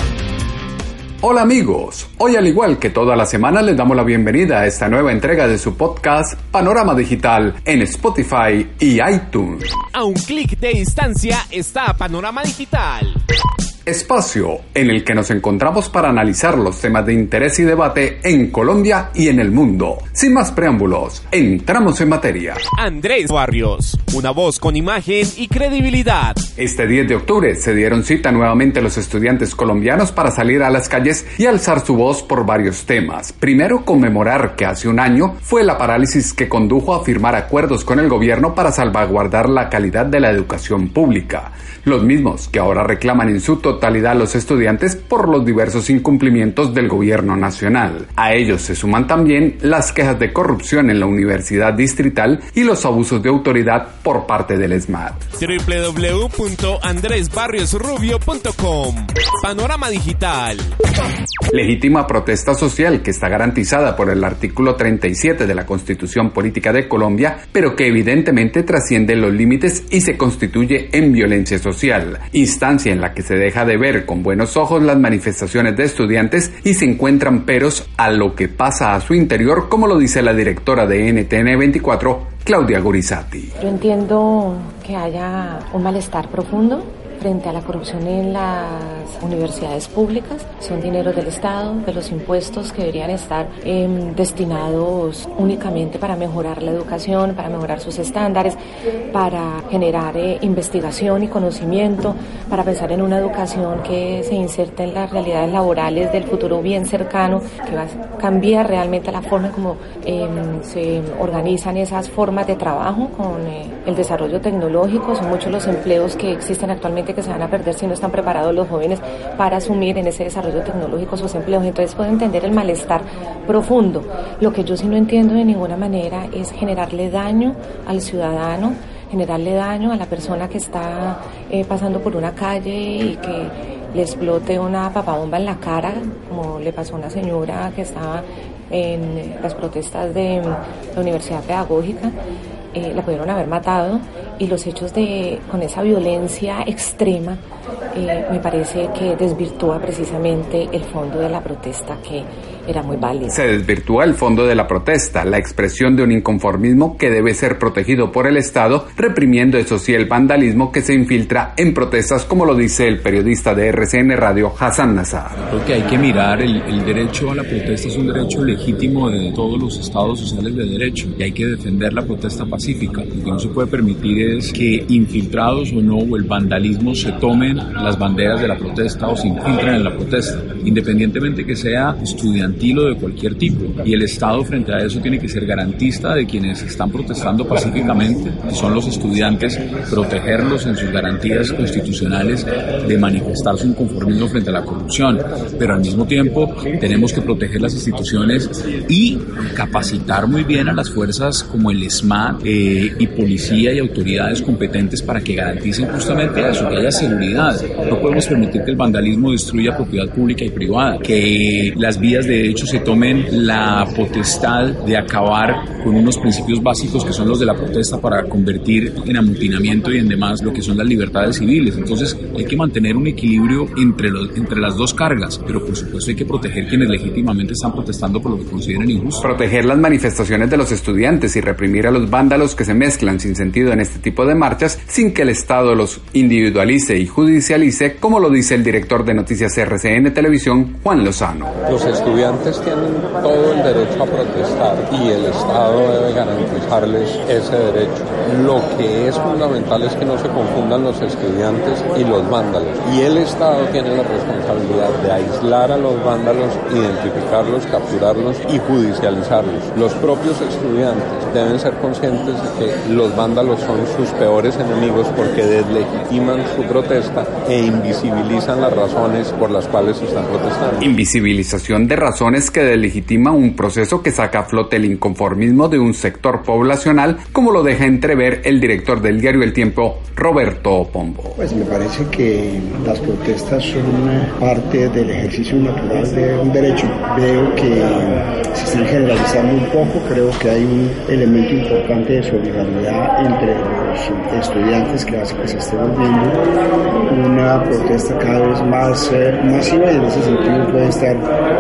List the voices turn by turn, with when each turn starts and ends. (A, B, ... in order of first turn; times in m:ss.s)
0:01.2-0:09.7 A
0:09.9-0:13.2 B
0:13.9-0:22.6 A
0:22.8-0:26.4 B
0:26.6-0:55.2 A
0:55.4-1:00.7 B
1:01.5-1:23.5 A
1:23.6-1:38.6 C
1:39.1-2:22.1 C
2:22.7-2:33.4 C
2:33.3-2:45.4 A
2:45.4-3:49.2 D
3:49.2-4:01.5 A
4:01.7-4:30.9 E
4:30.8-4:41.4 A
4:41.4-4:56.4 F
4:57.1-5:01.2 F